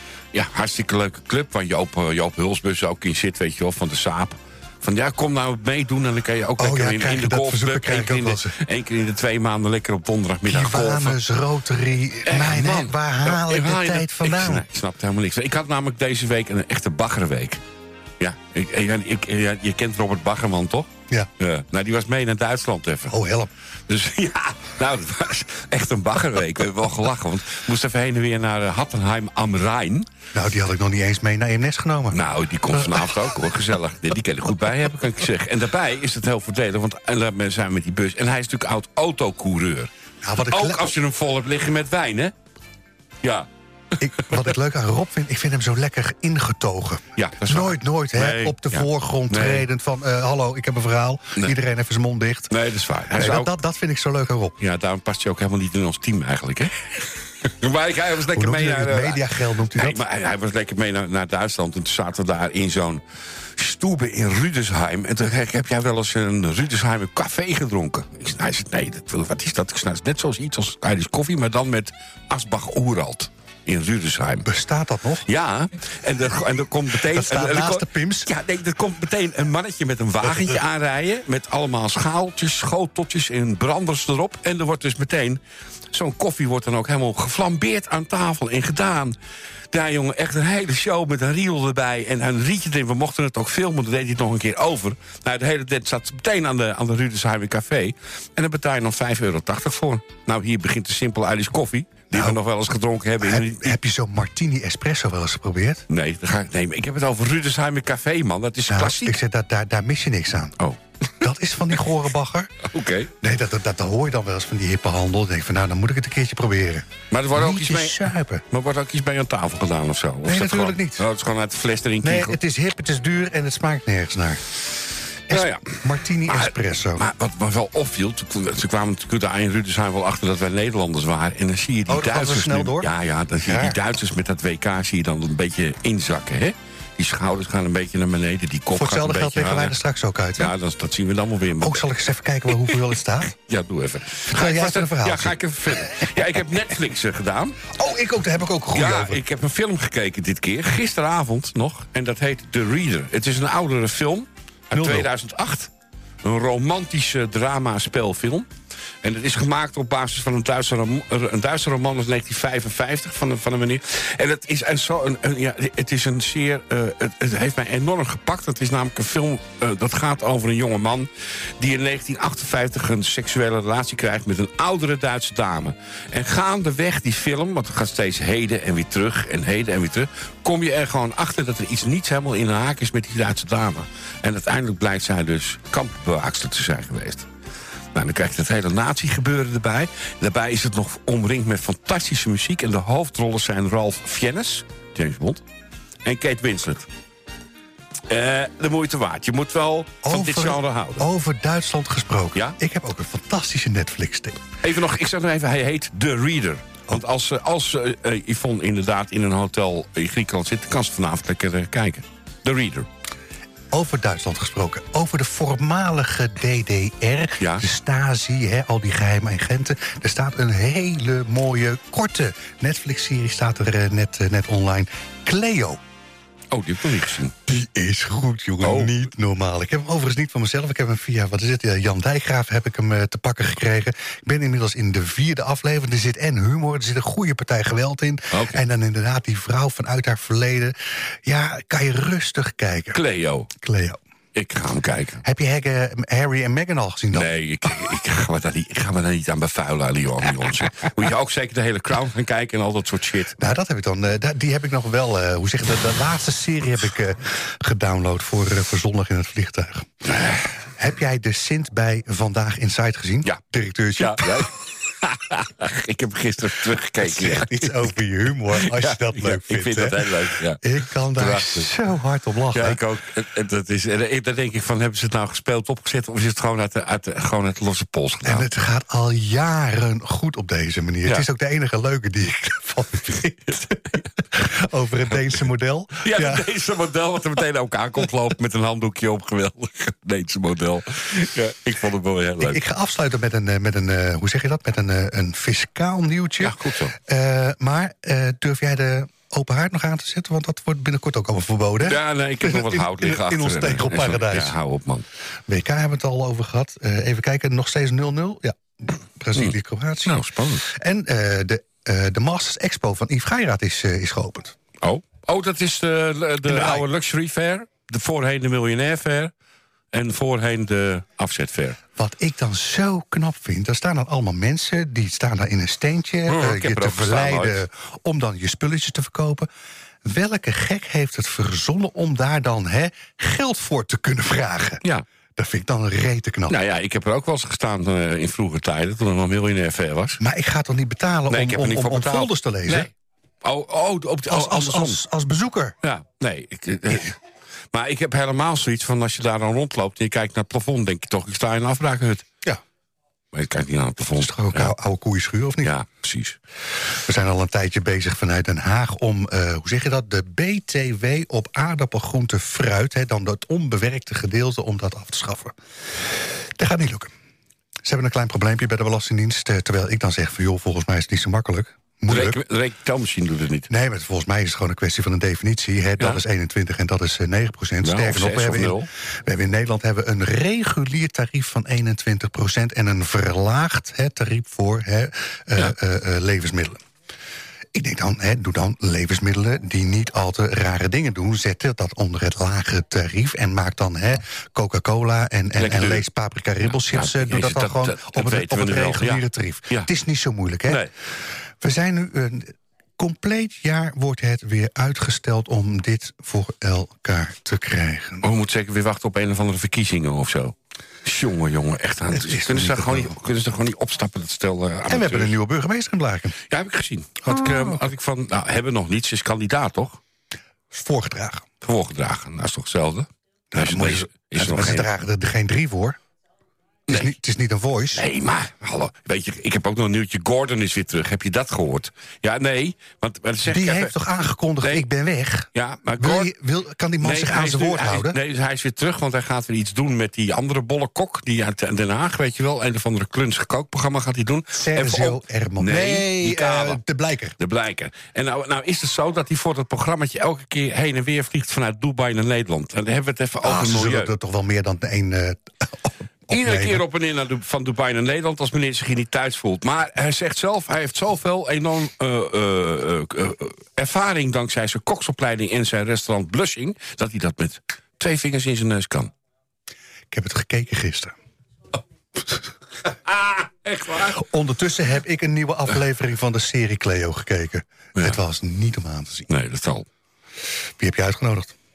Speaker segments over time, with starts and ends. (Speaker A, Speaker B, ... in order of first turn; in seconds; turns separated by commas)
Speaker A: 0.3-11.2, Speaker B: 6.6-8.5, Speaker B: 10.4-14.7, Speaker A: 12.2-17.6, Speaker A: 18.2-23.1, Speaker B: 23.1-23.5, Speaker A: 23.9-30.1, Speaker B: 30.3-32.2, Speaker A: 32.1-39.9, Speaker B: 40.2-40.9, Speaker A: 40.5-42.3, Speaker B: 44.0-52.5, Speaker A: 47.2-49.7, Speaker A: 52.5-53.5, Speaker B: 53.1-54.6, Speaker A: 54.6-63.0, Speaker B: 58.3-60.0, Speaker A: 63.6-74.5, Speaker B: 74.4-75.3, Speaker A: 75.2-85.4, Speaker B: 77.0-78.3, Speaker A: 85.9-89.1, Speaker A: 89.7-103.8, Speaker B: 102.1-102.4, Speaker B: 103.2-105.8, Speaker A: 105.9-109.2, Speaker B: 108.7-110.6, Speaker A: 110.6-111.3, Speaker B: 111.2-112.7, Speaker A: 112.7-113.1, Speaker B: 113.2-118.4, Speaker A: 117.1-118.0, Speaker A: 118.5-122.4, Speaker B: 120.2-121.0, Speaker B: 122.0-124.4, Speaker B: 125.3-127.0, Speaker A: 125.3-125.8, Speaker A: 126.3-139.8, Speaker B: 131.9-133.8, Speaker B: 138.7-140.5, Speaker A: 140.4-141.9, Speaker B: 141.6-143.3, Speaker A: 143.3-147.7, Speaker B: 144.3-146.2, Speaker B: 147.7-149.2, Speaker A: 148.7-155.7, Speaker B: 154.7-155.1, Speaker A: 156.2-158.5, Speaker A: 159.0-187.3, Speaker A: 187.9-195.4, Speaker A: 196.0-196.9, Speaker A: 198.1-201.1, Speaker B: 200.0-204.4, Speaker A: 204.6-212.9, Speaker B: 213.7-225.8, Speaker A: 226.5-227.4, Speaker B: 227.5-243.0, Speaker A: 228.6-228.9, Speaker A: 238.3-238.6, Speaker A: 242.9-243.5, Speaker B: 243.6-244.0, Speaker A: 244.3-245.2, Speaker B: 245.2-247.3, Speaker A: 247.1-253.4, Speaker B: 253.4-259.9, Speaker A: 260.1-260.5, Speaker B: 260.8-264.5, Speaker A: 264.0-267.9, Speaker B: 267.0-272.8, Speaker A: 268.5-271.7, Speaker A: 272.5-278.5, Speaker B: 278.2-286.5, Speaker A: 286.0-292.6, Speaker B: 292.4-304.6, Speaker A: 296.4-297.0, Speaker A: 301.8-305.1, Speaker B: 305.5-314.6, Speaker A: 309.3-310.6, Speaker A: 314.8-319.3, Speaker B: 316.5-316.9, Speaker A: 319.9-321.8, Speaker B: 322.0-329.5, Speaker A: 326.3-327.6, Speaker B: 330.0-334.8, Speaker B: 335.4-336.6, Speaker A: 336.5-340.2, Speaker B: 340.2-342.9, Speaker A: 341.3-342.9, Speaker A: 343.4-345.0, Speaker B: 344.3-345.8, Speaker A: 345.8-347.2, Speaker A: 347.7-352.3, Speaker A: 353.3-354.7, Speaker B: 354.1-355.7, Speaker A: 355.6-356.4, Speaker B: 357.0-367.1, Speaker B: 367.8-372.4, Speaker A: 372.1-373.7, Speaker B: 373.7-386.8, Speaker A: 377.8-378.9, Speaker B: 387.7-400.9, Speaker A: 395.6-396.0, Speaker A: 396.7-399.9, Speaker B: 401.6-408.2, Speaker A: 408.2-415.3, Speaker B: 412.1-413.1, Speaker B: 414.9-416.4, Speaker A: 416.5-420.0, Speaker B: 417.2-417.8, Speaker B: 420.7-421.4, Speaker A: 421.6-424.9, Speaker B: 423.5-426.0, Speaker A: 426.9-427.1, Speaker B: 426.9-428.1, Speaker A: 427.9-433.9, Speaker B: 433.4-438.2, Speaker A: 435.5-436.3, Speaker A: 437.0-446.8, Speaker B: 444.5-447.4, Speaker A: 447.4-454.1, Speaker B: 453.4-456.8, Speaker A: 456.3-469.1, Speaker B: 470.1-471.1, Speaker A: 472.9-474.2, Speaker B: 474.1-479.3, Speaker A: 479.3-479.9, Speaker B: 480.8-481.5